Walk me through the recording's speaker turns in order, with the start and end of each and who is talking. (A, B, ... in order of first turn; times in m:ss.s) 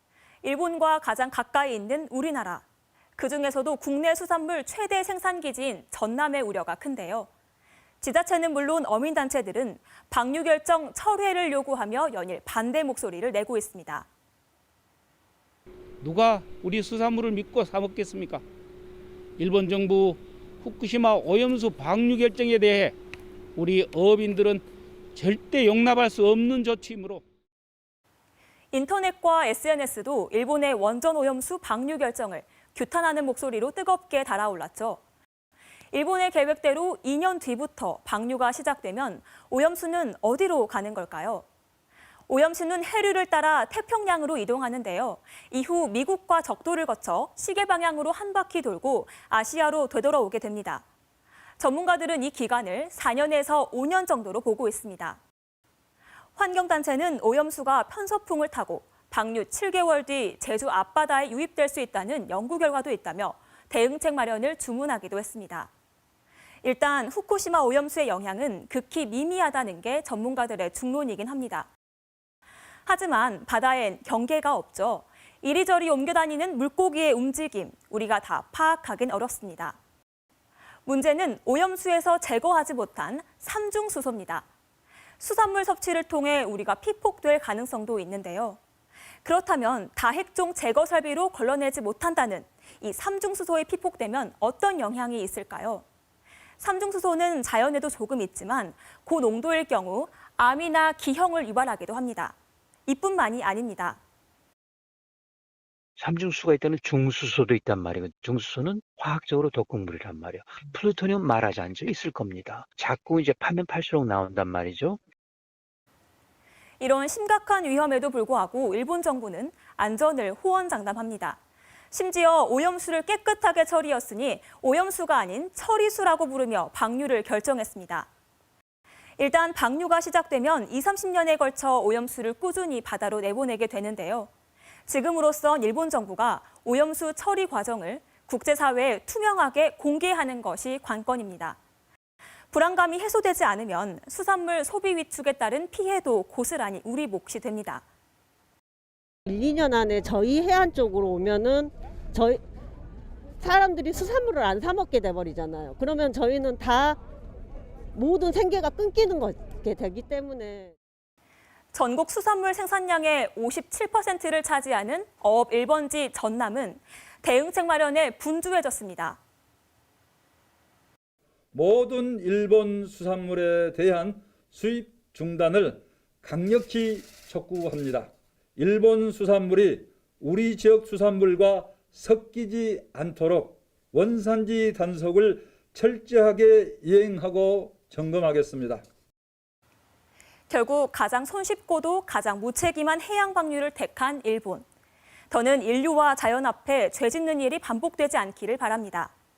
0:00.4-0:02.6 A
0:03.2-0:07.3 A
0:08.0-0:14.1 A
0:16.0-0:18.4 B
0:19.4-0:22.9 B
0:23.6-0:24.6 B
0:25.1-0:27.2 B
0:28.7-0:35.0 A
0:35.9-0:41.4 A
0:42.3-0:50.8 A
0:51.6-0:55.2 A
0:56.4-1:05.7 A
1:06.6-1:11.7 A
1:12.8-1:19.8 A
1:20.8-1:24.5 A
1:25.2-1:28.6 A
1:29.2-1:35.8 A
1:36.6-1:42.4 A
1:42.9-1:44.0 A
1:46.0-1:55.0 C
1:56.8-2:01.4 A
2:01.9-2:08.1 A
2:09.2-2:14.3 A
2:14.9-2:21.6 A
2:22.5-2:27.8 A
2:29.3-2:32.4 D
2:33.4-2:37.0 D
2:37.9-2:40.7 D
2:41.7-2:49.2 A
2:51.5-3:08.8 E
3:10.5-3:14.6 A
3:15.3-3:19.1 A